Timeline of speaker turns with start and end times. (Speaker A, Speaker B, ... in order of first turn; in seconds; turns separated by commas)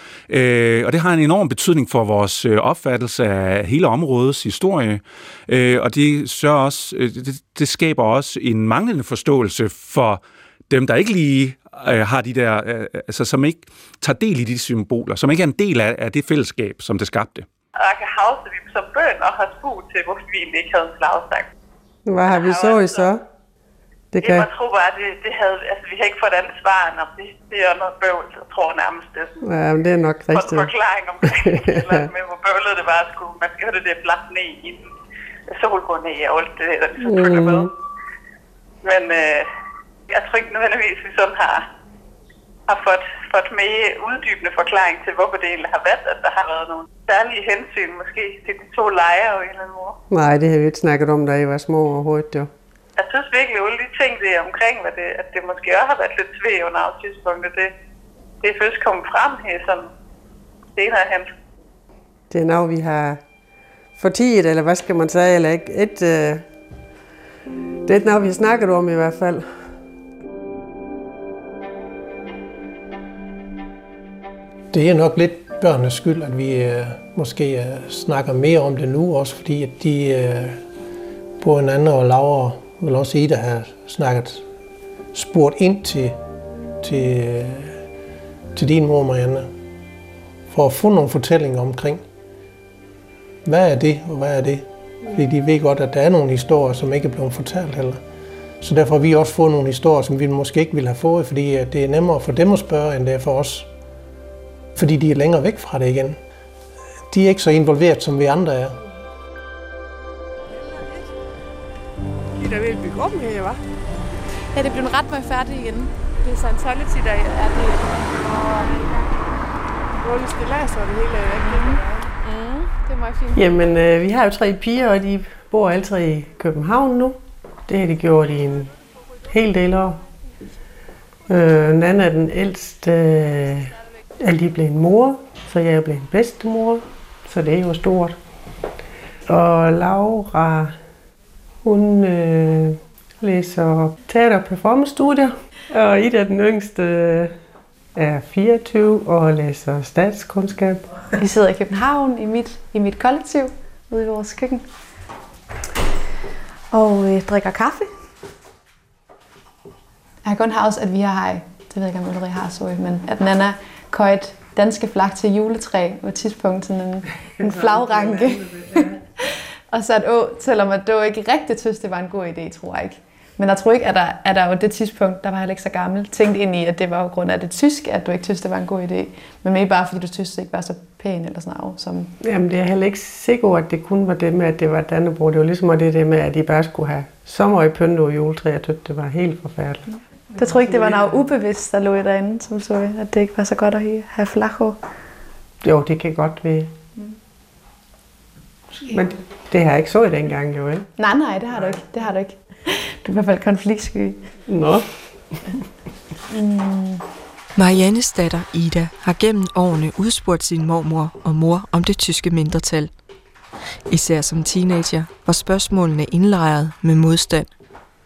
Speaker A: 0.3-17.4, Speaker B: 17.8-21.5, Speaker C: 22.1-23.2, Speaker B: 22.3-23.1, Speaker C: 24.1-24.5, Speaker B: 24.2-29.4, Speaker C: 29.4-30.7, Speaker B: 30.3-34.8, Speaker C: 31.2-32.0, Speaker B: 35.5-37.7, Speaker C: 37.0-37.7, Speaker B: 38.8-39.5, Speaker B: 40.1-41.6, Speaker B: 42.7-50.0, Speaker C: 50.1-52.5, Speaker B: 53.0-57.7, Speaker B: 58.4-59.9, Speaker B: 60.7-61.3, Speaker C: 62.3-63.2, Speaker C: 64.0-66.4, Speaker C: 67.8-69.4, Speaker D: 74.7-80.6, Speaker D: 81.4-84.4, Speaker D: 85.1-86.2, Speaker D: 86.8-87.8, Speaker D: 88.5-89.5, Speaker D: 90.5-92.0, Speaker D: 93.4-98.0, Speaker D: 98.6-103.7, Speaker D: 104.7-106.2, Speaker D: 107.1-108.8, Speaker C: 110.5-111.1, Speaker C: 112.3-113.6, Speaker E: 114.5-118.8, Speaker C: 120.0-122.0, Speaker E: 121.4-123.4, Speaker C: 123.3-128.7, Speaker C: 129.3-130.0, Speaker C: 131.3-138.2, Speaker C: 139.3-140.7, Speaker C: 141.6-147.3, Speaker C: 147.9-150.8, Speaker E: 151.2-154.7, Speaker E: 156.7-157.9, Speaker E: 160.2-182.1, Speaker C: 167.4-169.0, Speaker C: 182.2-189.9, Speaker E: 190.3-194.8, Speaker C: 190.4-190.9, Speaker C: 195.6-196.7, Speaker C: 198.9-200.9, Speaker E: 201.0-204.2, Speaker C: 204.5-205.4, Speaker E: 206.3-207.0, Speaker F: 207.6-212.9, Speaker F: 213.9-217.5